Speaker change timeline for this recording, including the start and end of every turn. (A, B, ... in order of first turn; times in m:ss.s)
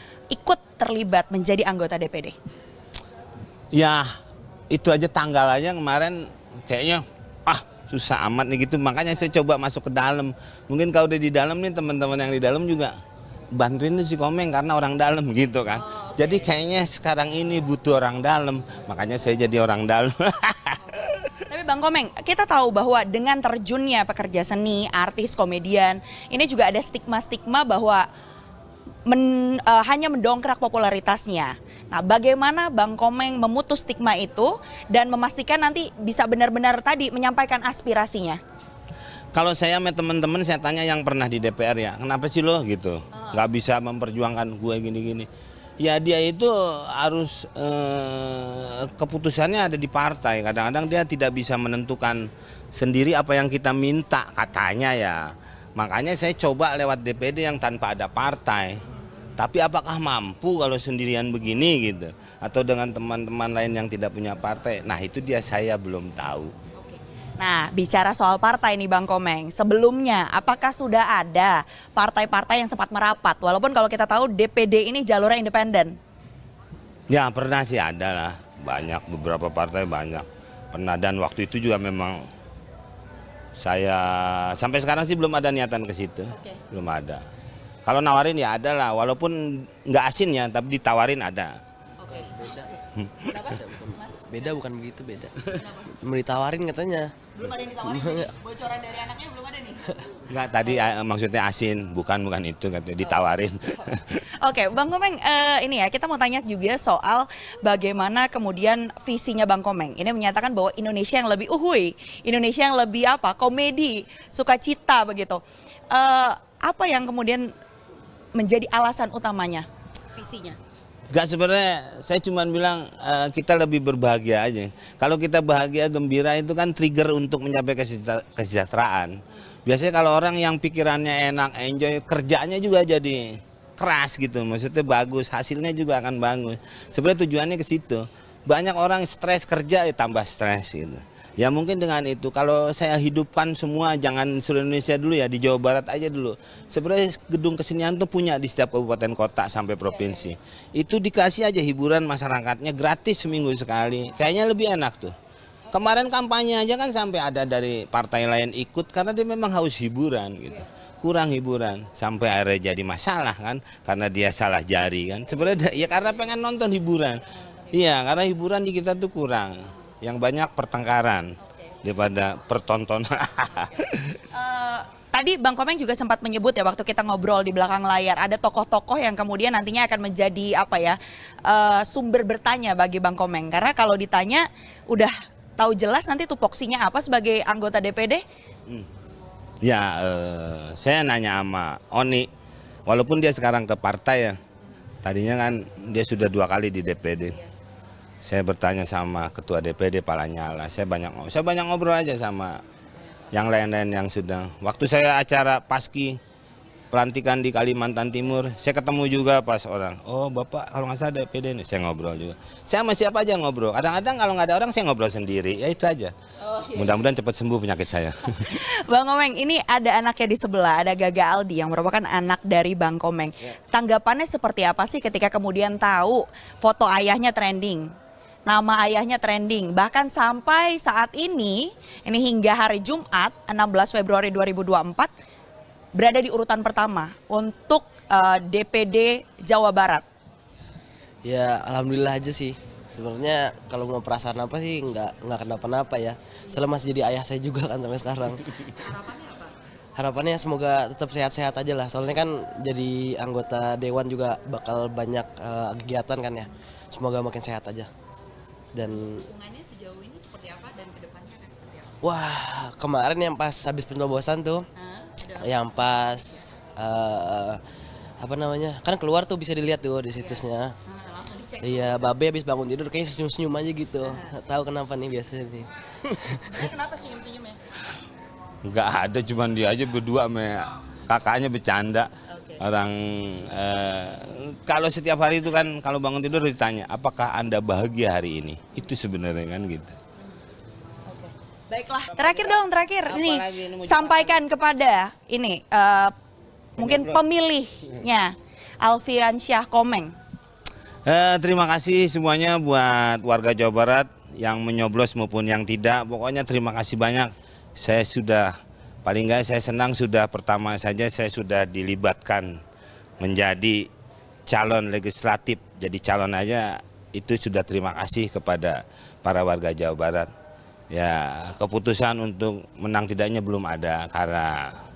0:00.3-0:02.4 A
0:03.7-0:04.1 B
0:04.7-0:12.9 B
0:13.5-0:21.4 B
0:15.7-0:16.5 A
0:21.5-0:28.1 A
0:29.0-0:38.4 A
0:39.3-0:45.3 B
0:43.1-0:43.4 A
0:45.8-0:58.8 B
0:59.4-1:06.5 B
1:06.8-1:16.0 A
1:17.1-1:22.2 B
1:23.6-1:27.2 B
1:26.3-1:26.6 A
1:27.8-1:31.6 B
1:32.0-1:34.6 A
1:32.1-1:32.7 C
1:33.4-1:35.4 C
1:35.4-1:35.9 A
1:36.0-1:37.1 C
1:37.3-1:40.9 A
1:37.8-1:38.3 C
1:40.3-1:44.2 B
1:44.4-1:57.5 A
1:58.4-2:00.6 A
2:01.1-2:09.1 B
2:09.6-2:35.1 B
2:29.9-2:30.3 A
2:35.6-2:35.9 A
2:35.7-2:54.2 B
2:45.3-2:46.2 A
2:47.3-2:47.8 A
2:51.4-2:51.8 A
2:53.6-3:08.2 A
3:09.6-3:12.3 B
3:12.9-3:14.4 B
3:15.0-3:17.4 B
3:18.2-3:22.6 B
3:23.3-3:26.2 B
3:26.9-3:36.1 B
3:36.4-3:37.0 A
3:36.7-3:38.6 B
3:38.4-3:47.9 A
3:48.5-3:55.1 A
3:56.0-4:00.0 A
4:01.2-4:08.8 C
4:08.7-4:09.6 A
4:10.0-4:17.9 C
4:18.7-4:19.2 C
4:18.8-4:22.0 A
4:22.0-4:24.6 C
4:24.8-4:26.4 A
4:25.4-4:27.6 C
4:28.2-4:30.7 C
4:30.2-4:32.1 A
4:31.6-4:36.6 C
4:34.0-4:34.3 A
4:36.4-4:37.6 A
4:38.6-4:50.0 B
4:42.3-4:42.6 A
4:51.1-4:56.1 A
4:52.1-4:54.4 B
4:56.8-5:00.1 A
4:56.8-4:57.2 B
5:01.0-5:08.5 B
5:09.0-5:12.6 B
5:13.2-5:13.9 B
5:14.4-5:20.3 B
5:20.9-5:24.7 B